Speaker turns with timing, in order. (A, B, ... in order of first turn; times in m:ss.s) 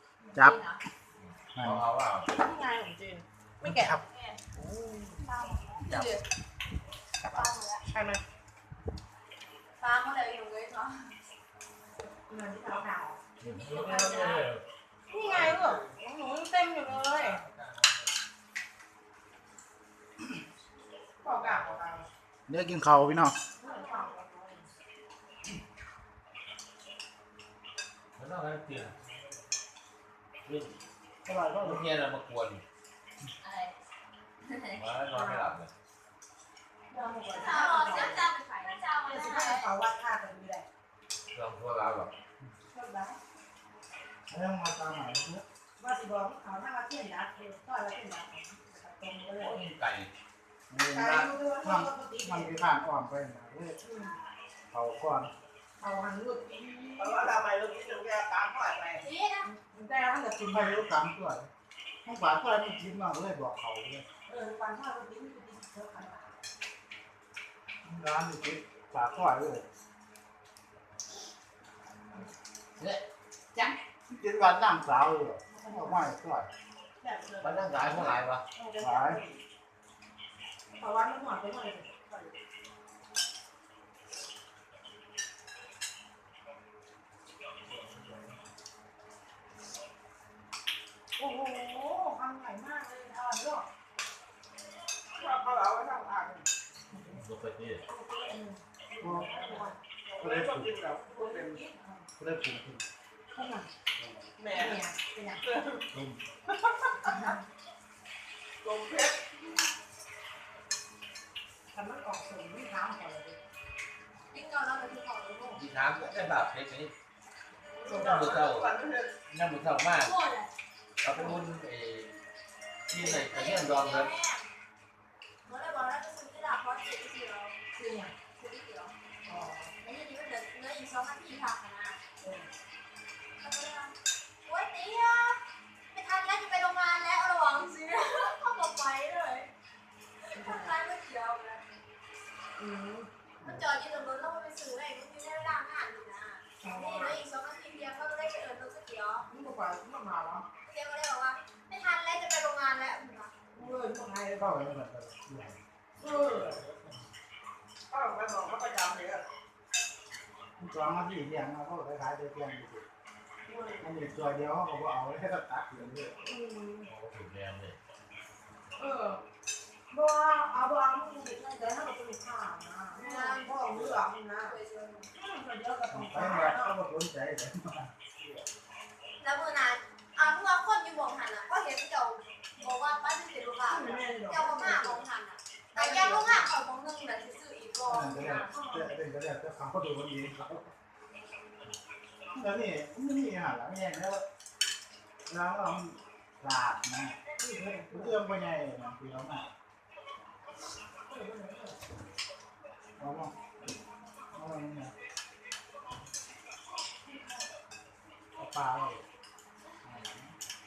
0:00.2-0:00.8 A
0:01.2-0:02.3 B
0:01.6-0:01.8 C
0:02.4-0:04.0 D
0:03.6-0:04.0 C
0:04.1-0:04.4 A
0:05.2-0:06.2 A
0:05.8-0:06.1 E
0:07.3-0:07.8 A
0:07.3-0:08.2 E
0:09.8-0:11.1 A
0:12.3-0:13.2 D
0:13.4-0:14.6 B
0:13.4-0:14.5 A
0:15.1-0:17.4 D
0:15.2-0:15.6 B
0:16.9-0:17.7 B
0:21.2-0:22.1 D
0:22.5-0:23.4 C
0:23.6-0:24.7 D
0:23.6-0:24.2 A
0:28.2-0:29.0 B
0:30.4-0:30.8 B
0:31.2-0:31.9 C
0:31.6-0:32.6 B
0:33.4-0:33.8 A
0:34.4-0:34.8 A
0:34.8-0:35.7 B
0:35.1-0:35.5 D
0:36.9-0:38.3 D
0:37.3-0:39.7 A
0:39.0-0:40.7 D
0:41.3-0:42.1 B
0:42.7-0:43.2 D
0:44.3-0:45.4 C
0:45.8-0:49.6 D
0:49.4-0:50.1 B
0:50.7-0:53.8 C
0:50.9-0:52.6 D
0:53.8-0:54.2 D
0:54.7-0:55.3 C
0:55.8-0:57.4 D
0:57.0-0:59.1 E
0:59.0-0:59.5 A
0:59.5-1:00.8 D
1:00.5-1:01.5 C
1:02.0-1:04.0 C
1:04.3-1:06.4 D
1:07.8-1:09.7 C
1:12.8-1:13.0 B
1:13.6-1:16.5 C
1:15.5-1:16.1 D
1:17.0-1:19.4 E
1:17.4-1:18.4 B
1:18.6-1:19.1 D
1:18.8-1:19.2 C
1:20.8-1:21.9 D
1:22.1-1:22.4 E
1:31.2-1:33.7 D
1:35.1-1:36.5 E
1:36.9-1:37.2 D
1:37.2-1:37.8 B
1:37.9-1:39.8 D
1:39.0-1:39.4 C
1:39.1-1:41.6 E
1:40.2-1:40.8 C
1:41.2-1:42.1 D
1:42.2-1:42.9 C
1:43.3-1:43.7 D
1:44.4-1:44.8 E
1:44.5-1:45.4 D
1:45.4-1:45.9 E
1:45.9-1:46.3 C
1:46.6-1:47.2 E
1:48.6-1:49.2 E
1:51.7-1:53.4 D
1:54.3-1:55.6 A
1:55.6-1:56.9 B
1:57.8-1:59.1 E
1:57.8-1:58.1 D
1:58.0-1:58.7 B
1:59.3-2:00.1 B
1:59.9-2:00.5 A
2:01.0-2:02.2 B
2:02.9-2:04.1 B
2:02.9-2:04.4 A
2:05.5-2:07.6 A
2:07.8-2:08.1 D
2:08.4-2:08.9 A
2:09.3-2:09.7 D
2:09.8-2:12.0 A
2:12.2-2:12.5 D
2:13.4-2:13.9 A
2:14.4-2:15.4 A
2:15.9-2:19.5 A
2:20.2-2:21.6 A
2:20.4-2:20.8 D
2:22.6-2:23.1 D
2:23.4-2:29.3 A
2:26.6-2:27.2 D
2:29.3-2:30.5 D
2:30.7-2:33.3 A
2:33.5-2:34.7 D
2:34.4-2:35.6 C
2:36.0-2:36.6 D
2:37.9-2:39.3 E
2:40.6-2:42.8 C
2:43.5-2:43.9 D
2:43.8-2:46.3 C
2:46.2-2:46.9 D
2:46.9-2:47.8 B
2:48.8-2:49.2 D
2:49.9-2:54.6 D
2:52.9-2:53.6 A
2:54.4-2:55.1 A
2:55.1-2:56.8 D
2:55.9-2:57.9 C
2:59.2-3:08.6 A
3:03.6-3:05.0 D
3:05.8-3:06.5 E
3:07.8-3:10.7 C
3:08.5-3:08.9 D
3:12.3-3:14.3 C
3:15.3-3:17.2 C
3:17.4-3:18.2 D
3:17.8-3:19.5 C
3:21.1-3:21.8 D
3:23.0-3:23.5 C
3:24.3-3:24.9 C
3:28.4-3:29.0 C
3:29.8-3:30.3 C